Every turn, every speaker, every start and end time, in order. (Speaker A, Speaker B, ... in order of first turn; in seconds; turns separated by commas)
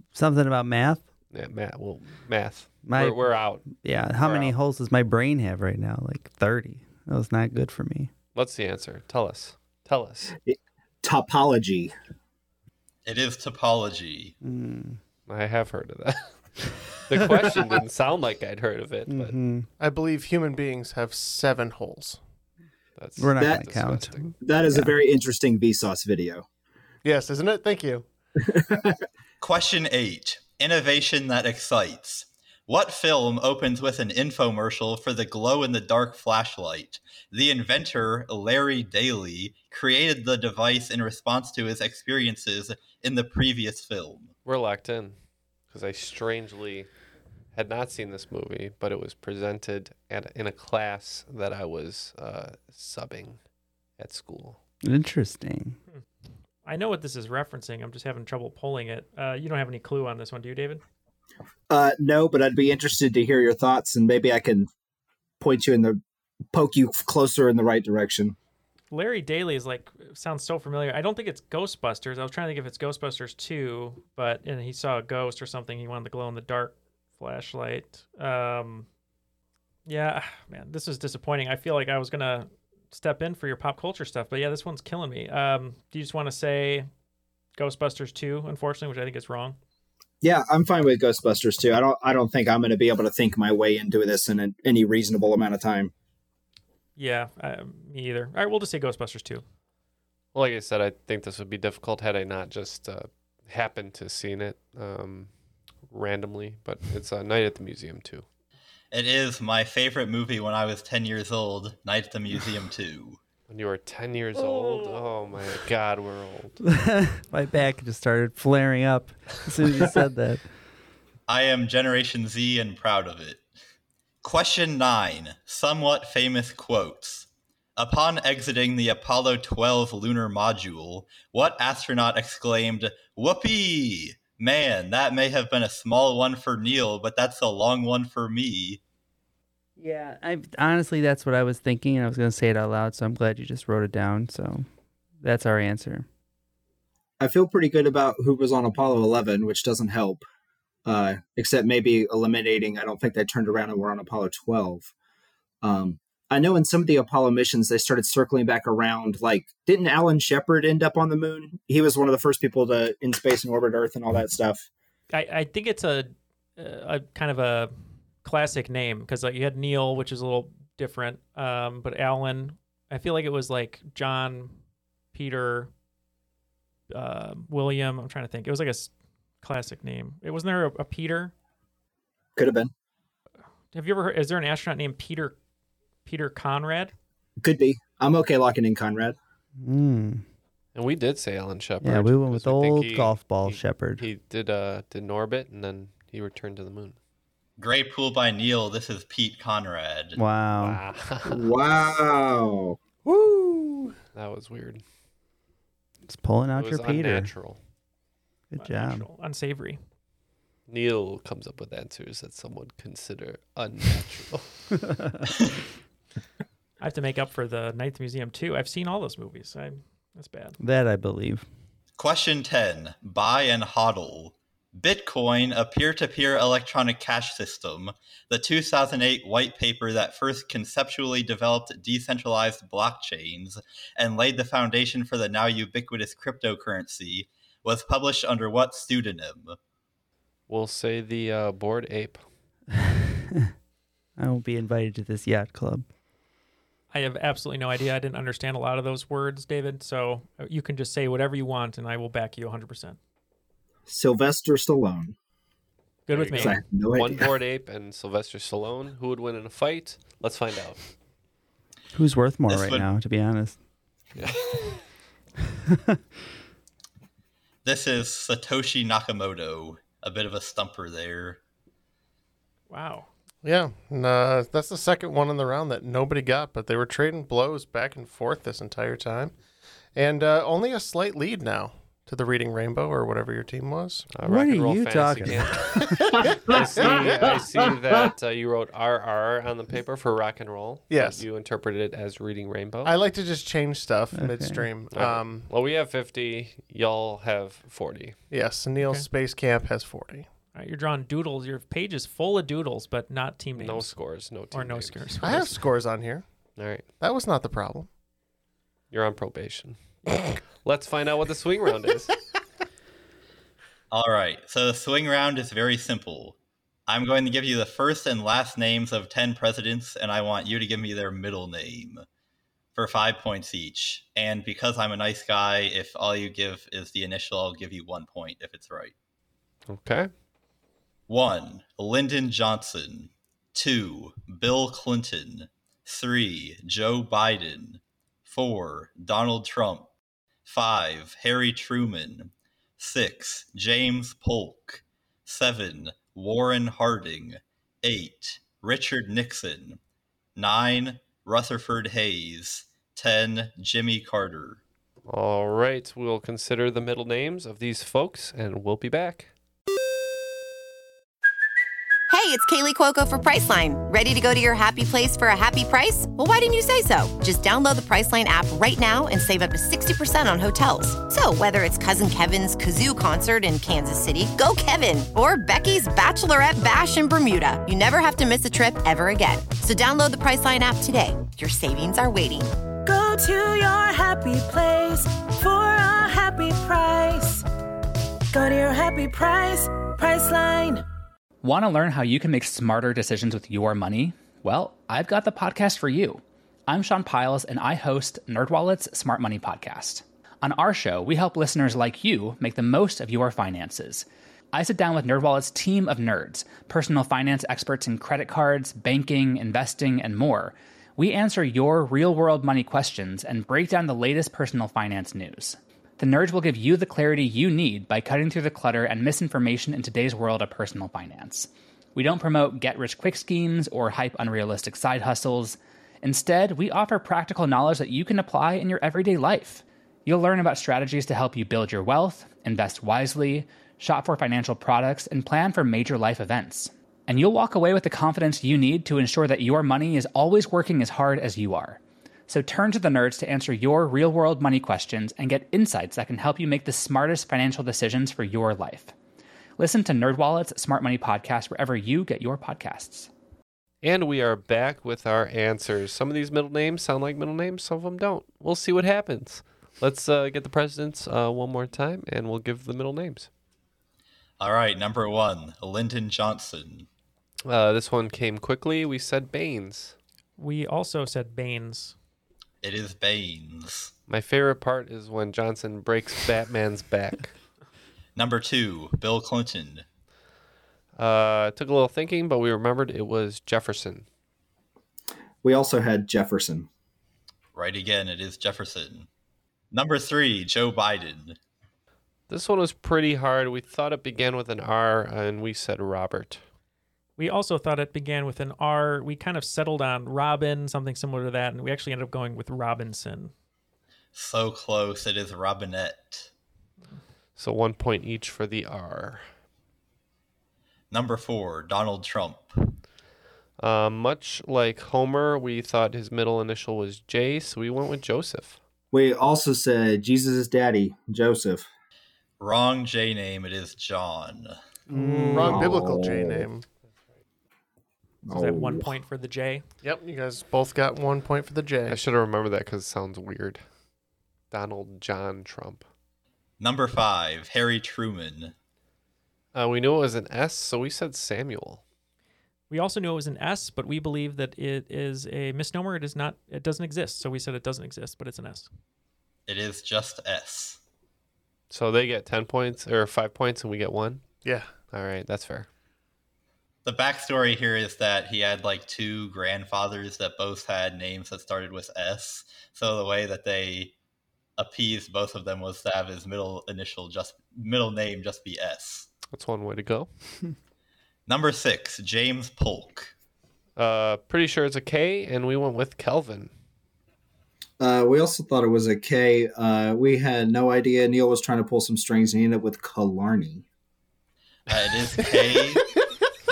Speaker A: 0.1-1.1, Speaker B: 1.3-4.5, Speaker A: 2.9-8.1, Speaker B: 8.3-10.4, Speaker C: 10.5-11.9, Speaker D: 13.1-14.3, Speaker A: 14.4-15.0, Speaker B: 15.3-19.4, Speaker A: 19.1-19.7, Speaker E: 19.8-22.2, Speaker B: 23.0-24.3, Speaker A: 23.2-24.9, Speaker C: 23.4-23.6, Speaker C: 24.4-26.4, Speaker E: 27.0-28.1, Speaker C: 28.5-29.0, Speaker D: 29.4-44.3, Speaker B: 44.5-45.2, Speaker B: 45.7-46.9, Speaker B: 47.5-53.4, Speaker B: 54.0-54.6, Speaker A: 54.8-55.8, Speaker F: 56.6-60.8, Speaker C: 61.7-64.7, Speaker C: 65.4-66.0, Speaker C: 66.5-68.4, Speaker F: 68.9-78.9, Speaker F: 79.9-86.9, Speaker F: 87.6-89.6, Speaker C: 90.2-95.9, Speaker F: 97.0-99.4, Speaker B: 100.3-105.3, Speaker B: 105.9-108.2, Speaker D: 108.9-113.2, Speaker B: 113.5-116.6, Speaker A: 116.7-120.5, Speaker D: 121.3-123.4, Speaker D: 124.2-138.8, Speaker A: 139.8-144.7, Speaker A: 145.2-146.1, Speaker C: 147.2-150.2, Speaker C: 150.9-154.9, Speaker C: 155.6-164.7, Speaker F: 165.1-167.7, Speaker F: 168.2-174.6, Speaker F: 175.1-175.7, Speaker F: 176.9-178.9, Speaker F: 179.4-181.3, Speaker C: 182.4-182.7, Speaker F: 183.7-185.4, Speaker F: 186.1-186.9, Speaker C: 187.4-189.2, Speaker A: 189.6-190.2, Speaker B: 190.8-197.0, Speaker A: 191.8-194.0, Speaker D: 197.6-200.2, Speaker A: 200.2-200.8, Speaker B: 200.6-201.4, Speaker C: 201.3-202.8, Speaker E: 203.1-203.9, Speaker B: 204.1-204.8, Speaker A: 206.1-207.3, Speaker B: 206.6-207.6, Speaker A: 208.5-209.1, Speaker F: 208.6-209.8, Speaker B: 210.7-214.5, Speaker F: 216.8-220.6, Speaker A: 220.6-221.5, Speaker D: 222.0-239.6, Speaker B: 240.5-242.2, Speaker A: 242.7-243.5, Speaker A: 244.2-245.9, Speaker F: 246.9-253.0, Speaker C: 253.9-255.2, Speaker F: 256.1-256.6, Speaker B: 256.1-260.8, Speaker C: 256.3-257.3, Speaker A: 261.9-263.6, Speaker D: 262.5-262.9, Speaker B: 264.2-264.7, Speaker D: 267.6-271.4, Speaker F: 272.7-273.1, Speaker E: 273.4-279.3, Speaker E: 279.9-284.1, Speaker B: 284.1-285.9, Speaker A: 284.2-285.9, Speaker E: 285.8-287.1, Speaker B: 286.5-293.0, Speaker E: 290.9-291.2, Speaker E: 292.9-295.5, Speaker A: 294.1-294.6, Speaker B: 294.9-298.2, Speaker E: 298.3-300.3, Speaker F: 298.8-299.1, Speaker F: 300.5-303.9, Speaker B: 303.6-305.4, Speaker F: 304.5-305.5, Speaker E: 305.2-306.2, Speaker B: 306.6-306.9, Speaker E: 307.0-307.9, Speaker B: 308.9-309.8, Speaker B: 310.6-312.1, Speaker D: 313.9-316.4, Speaker D: 316.9-322.1, Speaker D: 322.8-328.9, Speaker B: 329.7-330.1, Speaker D: 331.1-339.9, Speaker D: 340.5-349.8, Speaker D: 350.4-354.6, Speaker B: 355.1-359.3, Speaker G: 362.1-382.5, Speaker H: 382.9-387.4, Speaker H: 388.3-390.8, Speaker I: 391.4-448.9, Speaker I: 449.6-453.1, Speaker B: 453.8-463.3, Speaker D: 464.4-466.9, Speaker B: 467.5-469.9, Speaker F: 470.4-471.9, Speaker D: 472.6-473.9, Speaker B: 474.1-477.3, Speaker D: 478.2-479.9, Speaker B: 481.0-484.1, Speaker C: 485.4-486.7, Speaker D: 487.6-489.1, Speaker D: 489.7-491.4, Speaker B: 492.3-496.4, Speaker F: 497.2-503.3, Speaker D: 504.1-506.3, Speaker B: 507.4-509.2, Speaker D: 510.9-512.5, Speaker B: 513.6-518.6, Speaker C: 518.9-521.7, Speaker D: 522.4-524.6, Speaker A: 524.9-525.8, Speaker E: 525.2-526.7, Speaker C: 525.3-526.5, Speaker C: 528.3-528.9, Speaker F: 528.3-529.6, Speaker E: 529.8-532.0, Speaker B: 531.9-533.6, Speaker B: 534.5-535.9, Speaker D: 536.6-538.5, Speaker B: 539.5-541.8, Speaker F: 542.7-548.7, Speaker D: 549.5-550.8, Speaker B: 551.7-554.2, Speaker E: 554.5-554.7, Speaker B: 554.9-555.7, Speaker D: 556.9-563.9, Speaker D: 564.6-569.1, Speaker B: 569.3-570.1, Speaker D: 571.3-573.1, Speaker B: 573.8-576.5, Speaker C: 577.8-583.6, Speaker D: 584.7-585.8, Speaker E: 585.2-585.8